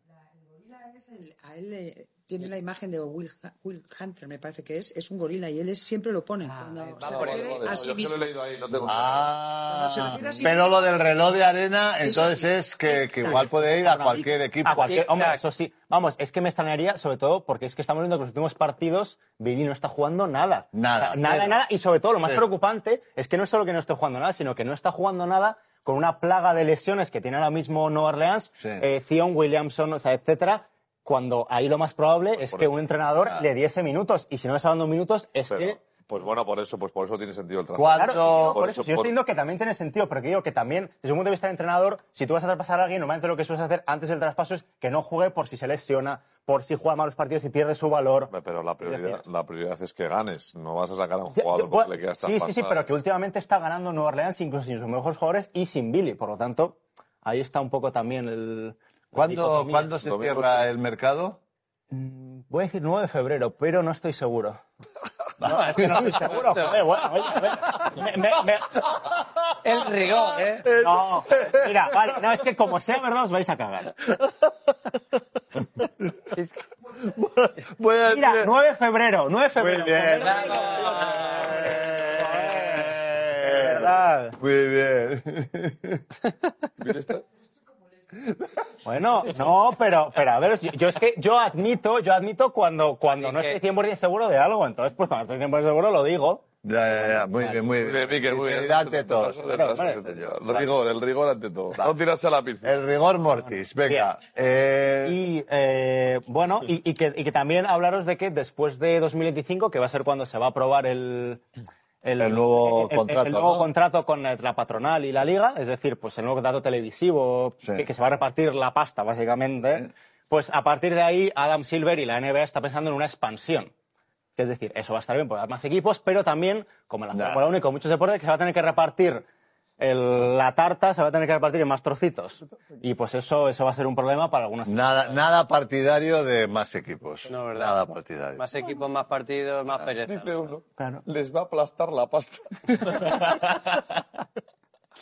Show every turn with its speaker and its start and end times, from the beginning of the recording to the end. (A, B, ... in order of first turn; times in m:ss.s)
0:00.4-0:08.9 A
0:06.9-0:07.5 B
0:07.0-0:09.3 C
0:08.8-0:15.0 D
0:09.7-0:10.9 A
0:12.0-0:14.2 A
0:14.1-0:35.8 E
0:14.9-0:15.4 B
0:20.7-0:21.6 D
0:32.4-0:32.7 C
0:35.5-0:39.1 C
0:37.7-0:38.6 D
0:37.9-0:49.2 E
0:48.3-0:52.9 C
0:51.3-0:59.9 E
0:59.1-1:01.4 D
1:00.0-1:00.6 C
1:01.9-1:04.6 E
1:05.4-1:08.9 E
1:05.4-1:06.7 B
1:05.8-1:06.1 D
1:09.0-1:09.4 D
1:09.6-1:10.7 B
1:10.5-1:12.2 D
1:10.7-1:14.0 E
1:17.0-1:18.5 D
1:18.0-1:24.4 E
1:19.5-1:26.0 D
1:20.4-1:21.2 B
1:26.8-1:27.2 C
1:28.8-1:37.6 E
1:33.2-1:33.6 B
1:36.6-1:39.5 D
1:37.8-1:42.7 C
1:39.5-1:40.0 E
1:40.0-1:40.6 D
1:42.6-1:45.2 D
1:43.9-1:44.1 E
1:45.0-1:51.4 E
1:52.0-2:03.7 E
1:52.2-1:53.7 D
2:04.4-2:09.2 E
2:07.1-2:07.4 D
2:09.8-2:15.2 E
2:14.6-2:18.4 D
2:17.3-2:17.8 B
2:18.4-2:20.4 B
2:20.0-2:23.4 C
2:20.8-2:21.0 E